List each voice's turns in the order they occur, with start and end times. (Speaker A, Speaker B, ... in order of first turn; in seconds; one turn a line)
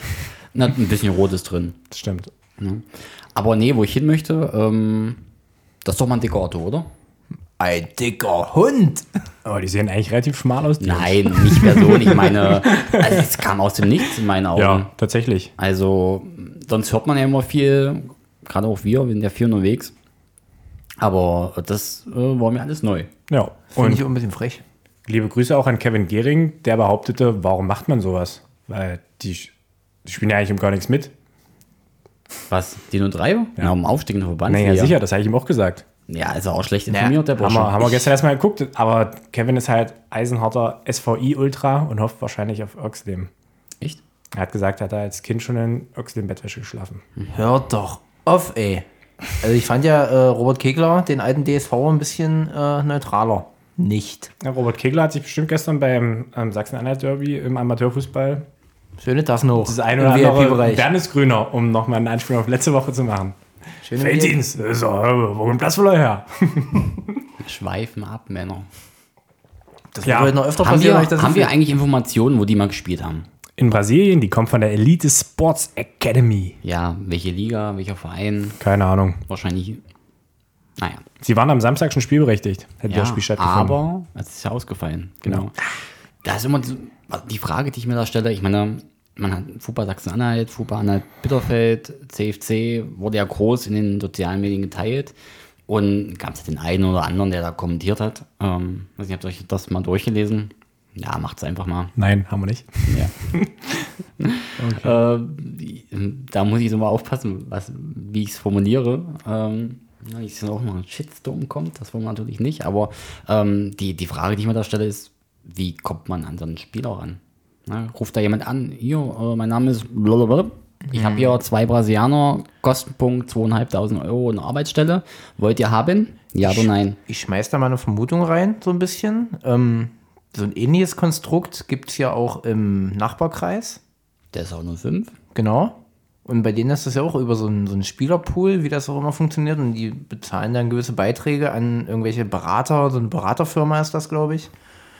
Speaker A: 0.5-1.8
Speaker B: 1.9-2.3
Speaker A: 2.6-5.2
Speaker A: 5.8-6.9
Speaker C: 7.6-9.1
Speaker B: 9.4-13.2
Speaker A: 10.8-14.9
Speaker B: 14.6-15.5
Speaker A: 15.6-19.9
Speaker A: 21.0-23.1
Speaker B: 23.3-24.0
Speaker C: 23.7-24.6
Speaker B: 25.1-29.5
Speaker B: 30.1-31.1
Speaker A: 32.5-35.0
Speaker B: 34.5-35.9
Speaker A: 36.1-38.1
Speaker C: 36.9-37.2
Speaker B: 37.4-43.3
Speaker B: 44.3-47.0
Speaker C: 47.3-48.9
Speaker C: 49.4-54.3
Speaker B: 54.4-58.5
Speaker C: 59.0-60.9
Speaker B: 59.6-63.4
Speaker C: 63.8-64.4
Speaker B: 63.9-67.1
Speaker A: 67.4-68.7
Speaker C: 69.9-71.5
Speaker B: 70.0-70.3
Speaker A: 70.6-73.3
Speaker B: 73.6-76.6
Speaker A: 76.6-78.6
Speaker B: 78.6-79.2
Speaker A: 79.3-79.8
Speaker A: 80.8-81.0
Speaker B: 81.2-83.8
Speaker A: 82.9-85.7
Speaker A: 86.2-95.1
Speaker A: 95.7-102.0
Speaker B: 102.0-103.9
Speaker A: 102.9-103.1
Speaker A: 104.2-127.0
Speaker B: 104.6-105.0
Speaker C: 120.9-121.4
Speaker C: 126.4-133.8
Speaker A: 134.3-135.1
Speaker C: 135.3-144.5